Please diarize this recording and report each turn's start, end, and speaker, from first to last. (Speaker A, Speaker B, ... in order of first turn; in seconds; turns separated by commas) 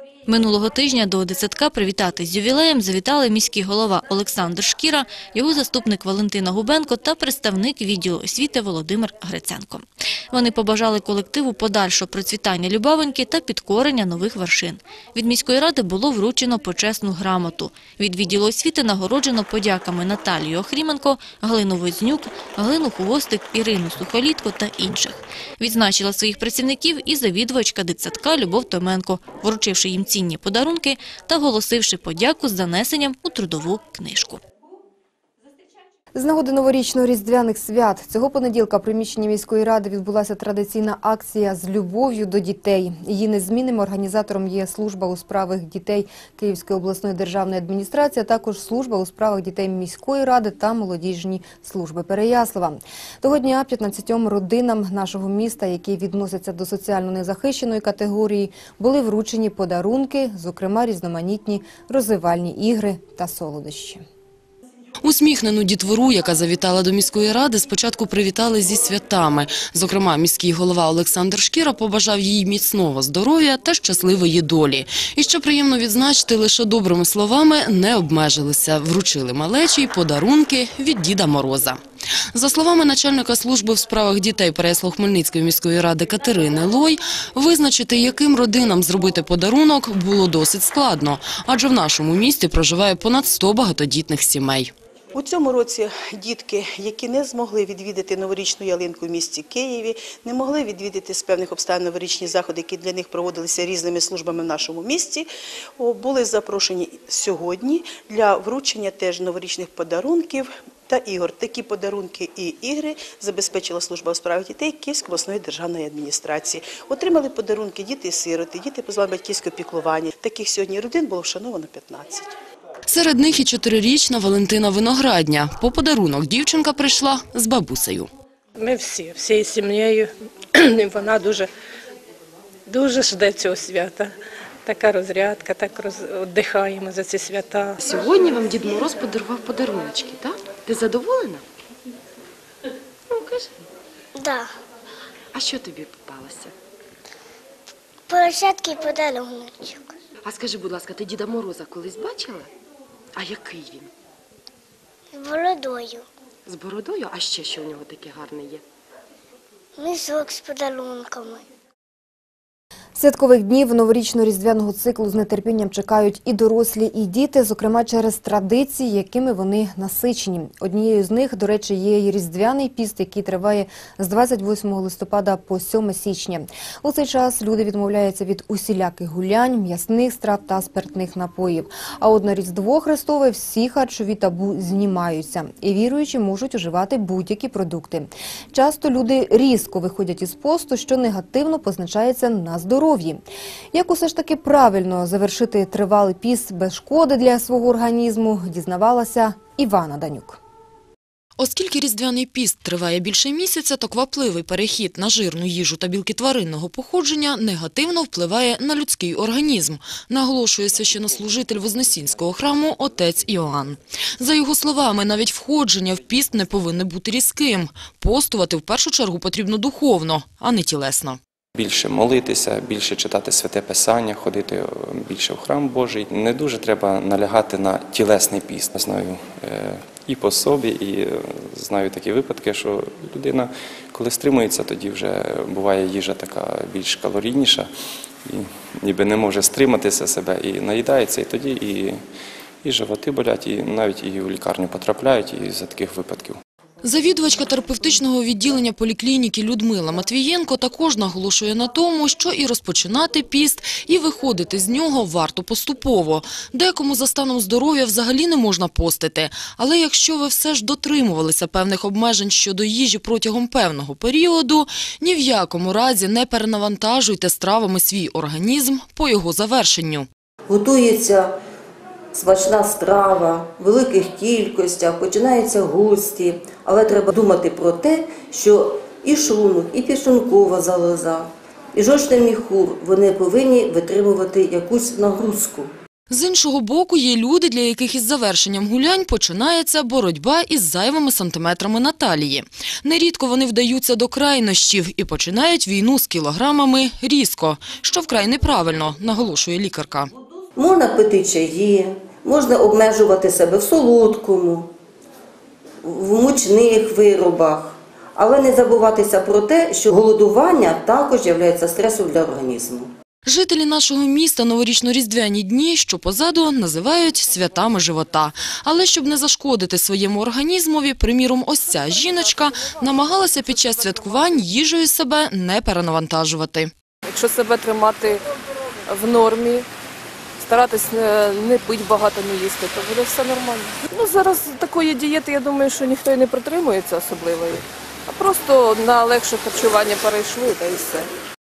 Speaker A: 0.3-34.4, Speaker B: 36.1-64.0, Speaker C: 65.0-81.8, Speaker C: 82.3-94.7, Speaker D: 95.1-122.4, Speaker C: 122.9-128.1, Speaker E: 128.6-131.5, Speaker E: 132.7-134.1, Speaker E: 134.7-137.8, Speaker F: 137.8-141.4, Speaker F: 143.1-143.5, Speaker G: 144.2-144.5, Speaker F: 145.3-146.5, Speaker G: 148.1-149.9, Speaker F: 150.2-152.5, Speaker F: 153.2-153.9, Speaker G: 155.1-156.1, Speaker F: 156.5-158.6, Speaker G: 159.8-161.4, Speaker B: 162.9-200.4, Speaker C: 201.4-221.2, Speaker H: 221.6-237.7, Speaker H: 238.3-242.0, Speaker H: 242.6-246.4, Speaker C: 246.8-270.1, Speaker I: 270.5-271.4, Speaker I: 272.1-285.7, Speaker C: 286.1-300.1, Speaker I: 300.6-304.7, Speaker I: 305.8-312.9, Speaker C: 313.2-326.7, Speaker J: 327.1-328.2, Speaker J: 328.9-329.7, Speaker J: 330.4-341.1